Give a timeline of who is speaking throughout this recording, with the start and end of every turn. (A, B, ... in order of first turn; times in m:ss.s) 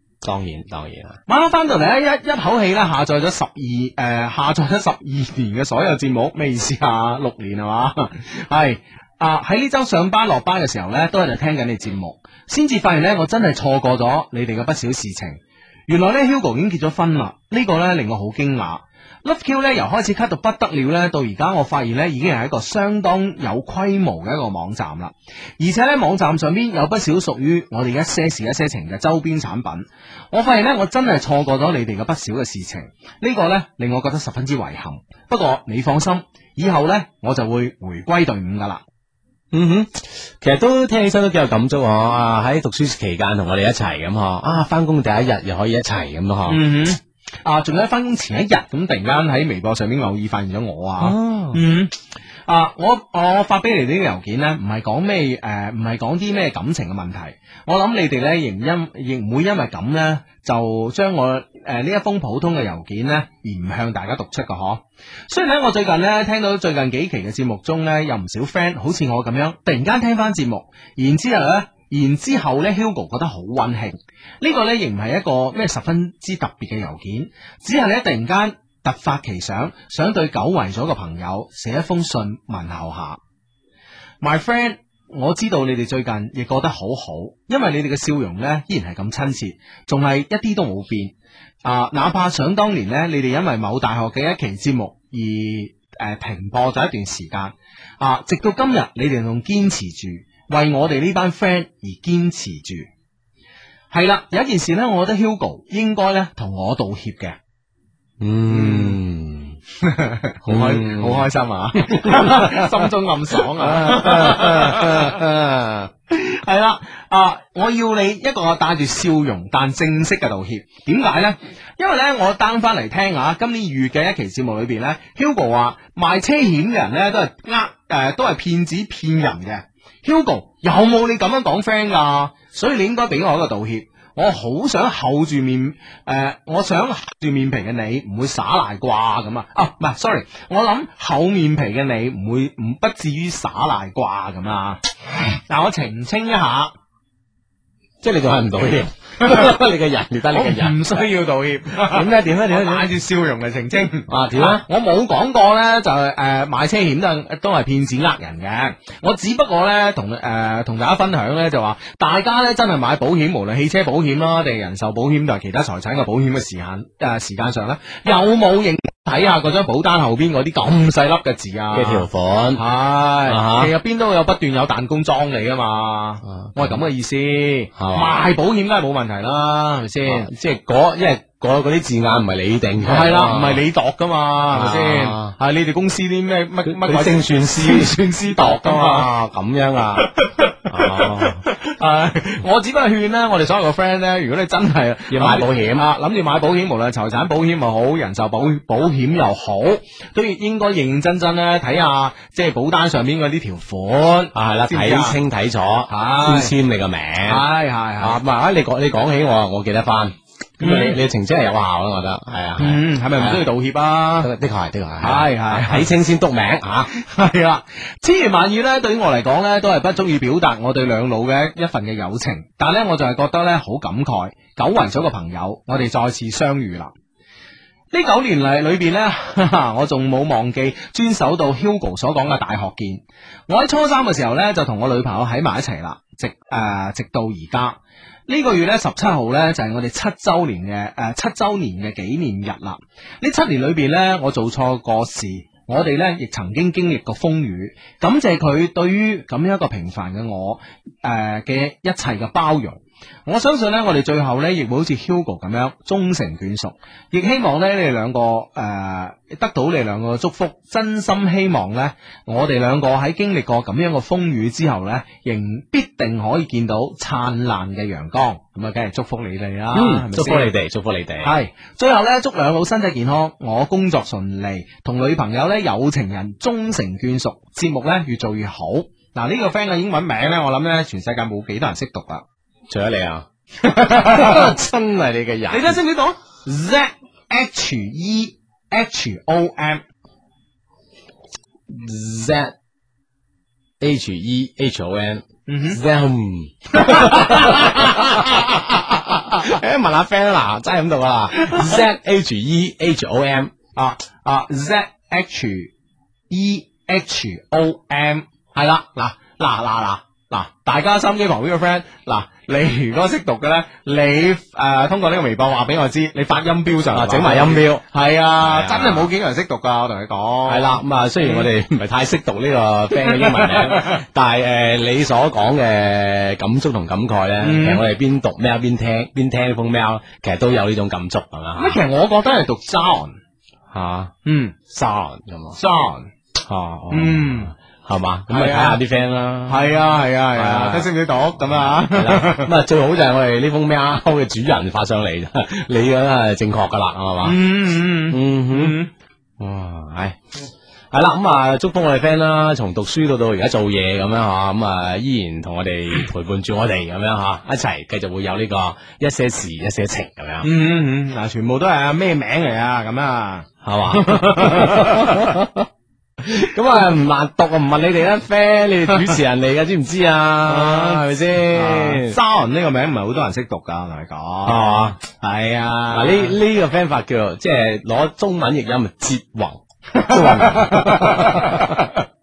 0:00.2-0:01.2 A
0:01.3-0:38.8 B
0:39.5-0:46.6 A
0:46.5-0:51.9 B
0:51.0-0:51.6 A
0:52.5-1:23.2 B
1:24.2-1:31.1 B
1:31.6-1:42.9 B
1:43.9-1:47.4 B
1:48.2-1:49.6 A
1:48.5-1:49.0 B
1:49.8-1:55.2 B
1:50.4-1:52.9 A
1:53.5-1:55.9 A
1:56.1-2:24.8 B
2:25.5-2:26.7 B
2:28.0-2:31.1 A
2:29.2-2:29.5 B
2:30.3-3:00.3 B
2:31.9-2:32.9 A
2:34.1-2:34.7 A
2:51.7-2:52.6 A
2:53.3-2:53.7 A
2:56.2-2:56.8 A
2:57.8-2:58.2 A
3:00.0-3:03.6 A
3:02.8-3:09.1 B
3:04.5-3:05.3 A
3:06.6-3:10.1 A
3:10.0-3:25.2 B
3:10.6-3:11.4 A
3:15.1-3:15.9 A
3:24.4-3:27.5 A
3:25.9-3:26.6 B
3:27.2-3:28.2 B
3:28.0-3:33.4 A
3:30.6-3:31.0 B
3:32.6-3:34.3 B
3:34.2-3:36.9 A
3:35.0-3:35.9 B
3:36.9-3:46.9 B
3:47.9-4:30.5 B
4:29.7-4:31.3 A
4:31.2-4:42.2 B
4:42.7-4:43.3 A
4:43.6-4:44.6 B
4:43.9-4:45.8 A
4:45.5-4:49.8 B
4:51.7-4:52.5 A
4:53.8-5:03.5 A
4:55.5-4:55.8 B
4:56.7-4:58.2 B
5:01.3-5:01.9 B
5:03.8-5:05.7 B
5:06.3-5:21.5 B
5:16.9-5:17.8 A
5:18.4-5:19.1 A
5:20.5-5:31.8 A
5:23.0-5:24.0 B
5:27.4-5:27.8 B
5:31.6-5:33.2 B
5:33.7-5:34.1 A
5:34.2-5:34.6 B
5:34.7-5:35.6 A
5:35.6-5:36.1 B
5:36.4-5:39.8 A
5:36.9-5:37.5 B
5:38.3-5:38.8 B
5:39.5-5:42.6 B
5:40.3-5:40.9 A
5:41.4-5:47.4 A
5:47.2-5:48.9 B
5:48.1-5:48.8 A
5:49.4-6:00.5 A
6:00.4-6:05.4 B
6:03.6-6:05.7 A
6:06.2-6:12.2 A
6:08.9-6:09.2 B
6:10.5-6:16.4 B
6:14.5-6:15.0 A
6:15.9-6:21.9 A
6:19.9-6:22.0 B